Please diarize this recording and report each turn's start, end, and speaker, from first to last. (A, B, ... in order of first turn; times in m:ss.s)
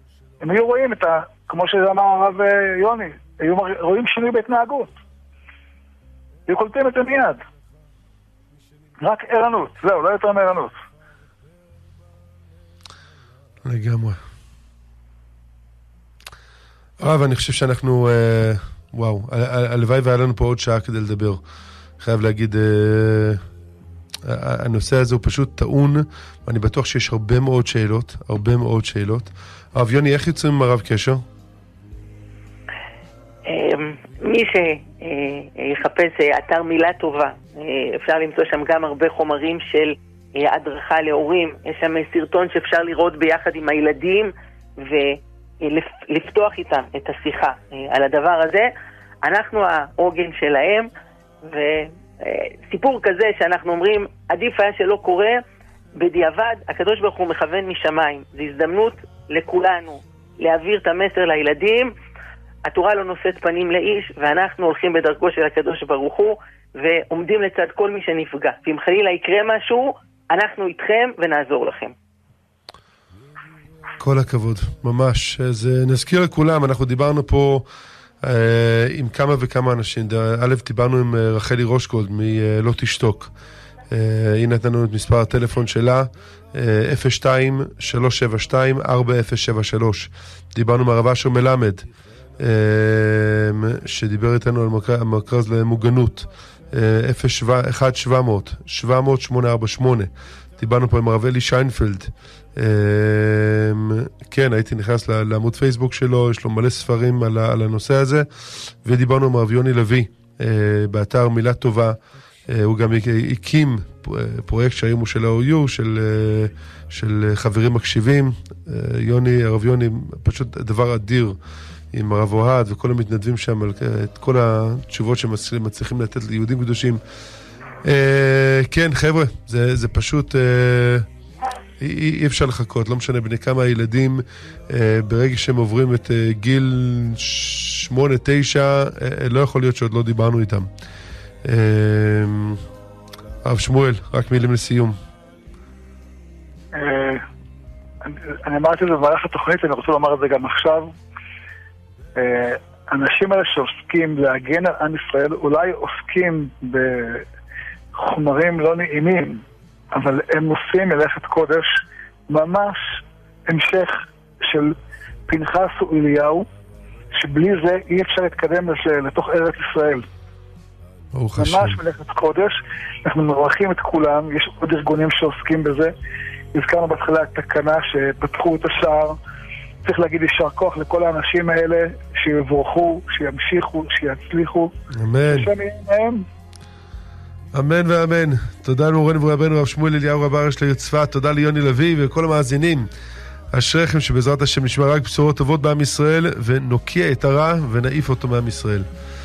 0:00.4-0:05.0 A
0:06.5-0:07.4 A
0:09.0-0:10.8 A
0:13.6-0:14.2 B
0:17.0-0:21.4 B
0:22.0-0:23.4 B
0:24.2-0:31.2 B
0:33.5-0:48.7 C
0:49.2-0:50.9 C
0:51.4-0:55.4 C
0:56.0-1:01.9 C
1:02.6-1:11.9 C
1:14.0-1:17.6 B
1:18.2-1:23.3 B
1:23.9-1:31.8 B
1:32.4-2:01.4 B
2:01.9-2:07.0 B
2:07.8-2:11.1 B
2:11.8-2:20.7 B
2:21.4-2:22.6 B
2:23.4-2:25.0 B
2:26.7-2:27.2 A
2:28.0-2:30.9 A
2:32.2-2:37.2 A
2:37.9-2:44.7 A
2:45.3-2:46.5 A
2:47.1-2:50.0 A
2:51.1-2:51.8 B
2:51.4-2:55.9 A
2:56.5-2:59.2 A
2:59.8-3:04.7 A
3:04.9-3:05.5 B
3:05.3-3:06.2 A
3:07.5-3:12.9 B
3:13.5-3:18.8 B